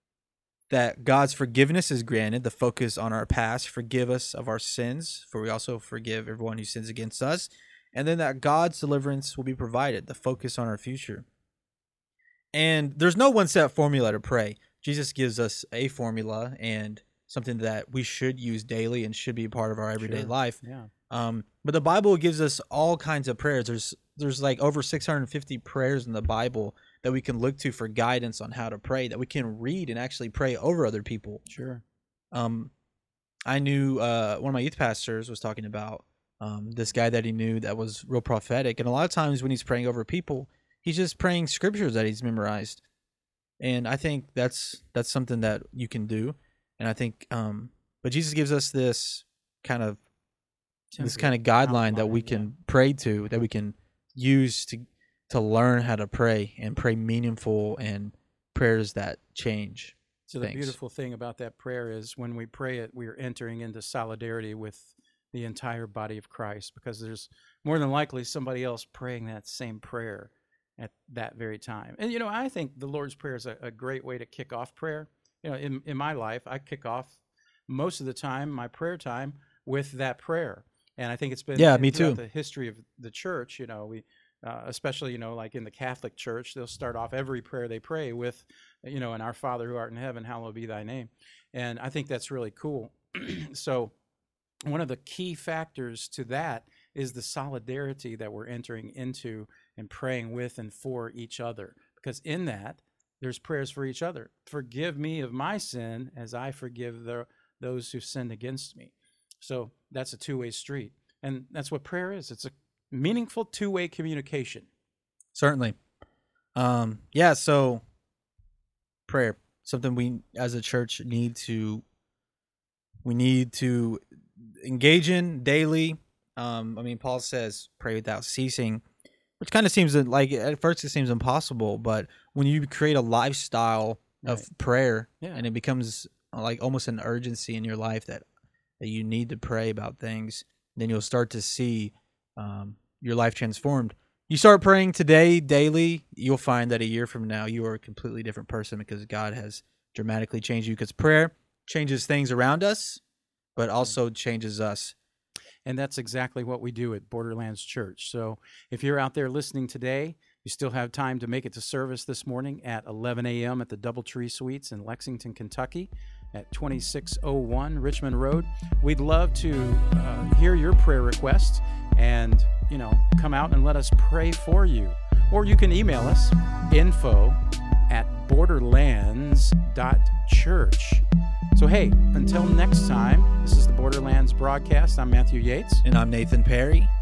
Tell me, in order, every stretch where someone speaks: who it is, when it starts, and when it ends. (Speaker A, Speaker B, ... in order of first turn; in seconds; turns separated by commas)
Speaker A: 0.7-11.2, Speaker A: 12.5-31.4, Speaker B: 20.0-20.9, Speaker B: 31.5-31.8, Speaker A: 32.3-32.7, Speaker A: 33.5-42.8, Speaker A: 43.6-50.0, Speaker B: 50.9-52.5, Speaker A: 51.0-60.8, Speaker B: 60.3-93.9, Speaker A: 81.5-82.2, Speaker B: 94.7-114.7, Speaker A: 115.3-115.8, Speaker A: 116.5-117.8, Speaker A: 119.1-121.8, Speaker A: 123.0-128.8, Speaker A: 129.4-138.2, Speaker B: 134.2-134.5, Speaker B: 135.2-135.4, Speaker A: 138.8-153.0, Speaker A: 153.6-154.9, Speaker B: 155.6-177.4, Speaker B: 177.9-181.0, Speaker B: 181.5-185.8, Speaker A: 185.8-186.9